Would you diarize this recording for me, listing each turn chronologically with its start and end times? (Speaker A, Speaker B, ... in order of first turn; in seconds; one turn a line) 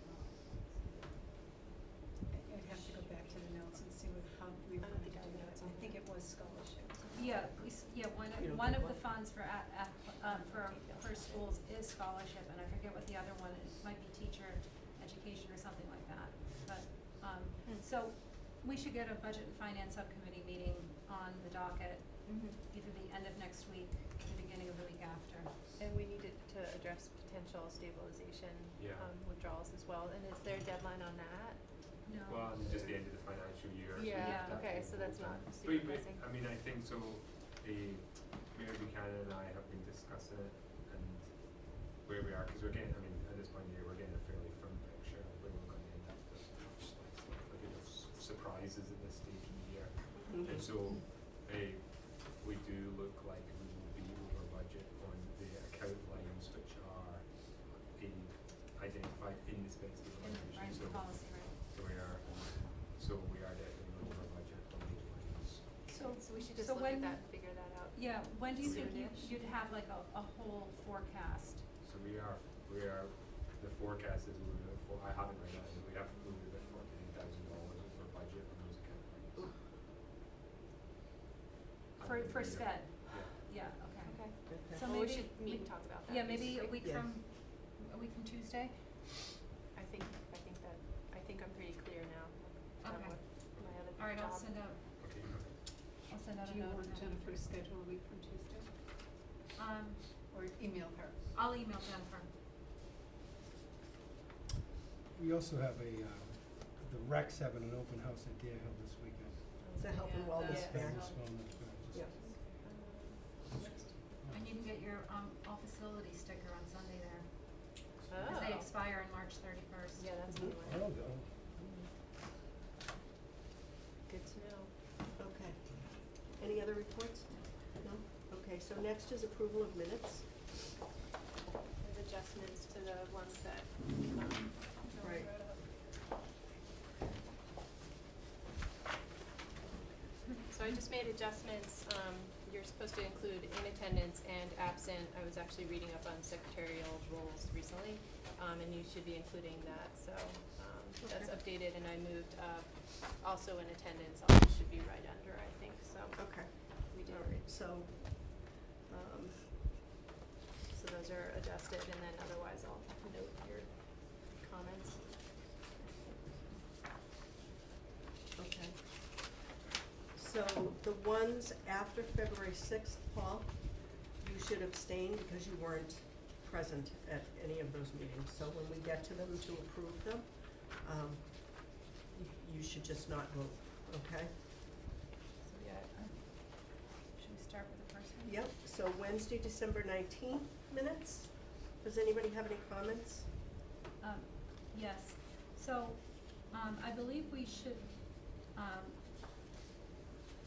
Speaker A: 2.3-7.0
Speaker B: 2.7-3.3
Speaker B: 4.8-7.5
Speaker C: 7.1-25.5
Speaker D: 8.3-9.0
Speaker B: 10.2-11.6
Speaker B: 22.2-22.6
Speaker B: 25.8-32.0
Speaker E: 28.8-29.1
Speaker C: 32.0-32.6
Speaker E: 32.2-65.9
Speaker B: 33.9-36.2
Speaker C: 34.1-34.6
Speaker D: 50.2-50.6
Speaker C: 60.2-61.5
Speaker C: 65.9-71.7
Speaker B: 65.9-69.4
Speaker E: 68.6-69.1
Speaker E: 71.8-79.5
Speaker E: 82.0-83.5
Speaker C: 82.0-89.0
Speaker B: 84.0-86.8
Speaker D: 84.5-84.8
Speaker D: 86.8-87.1
Speaker B: 89.7-94.7
Speaker C: 92.8-95.0
Speaker E: 93.5-93.8
Speaker E: 95.0-95.6
Speaker C: 96.1-97.4
Speaker A: 96.4-98.8
Speaker C: 99.5-100.3
Speaker A: 100.3-101.3
Speaker C: 101.3-102.3
Speaker F: 105.1-109.8
Speaker B: 109.6-114.0
Speaker D: 109.8-110.8
Speaker F: 110.3-112.1
Speaker F: 113.6-114.5
Speaker C: 114.3-120.1
Speaker B: 118.1-118.7
Speaker B: 120.0-120.8
Speaker F: 120.3-121.9
Speaker B: 124.1-124.8
Speaker D: 125.2-130.5
Speaker B: 131.8-136.0
Speaker D: 135.0-135.3
Speaker B: 140.5-157.4
Speaker D: 151.0-151.3
Speaker D: 156.2-159.7
Speaker B: 160.7-166.6
Speaker D: 168.3-169.3
Speaker D: 170.1-184.3
Speaker C: 185.4-188.4
Speaker D: 188.2-193.3
Speaker C: 194.0-199.1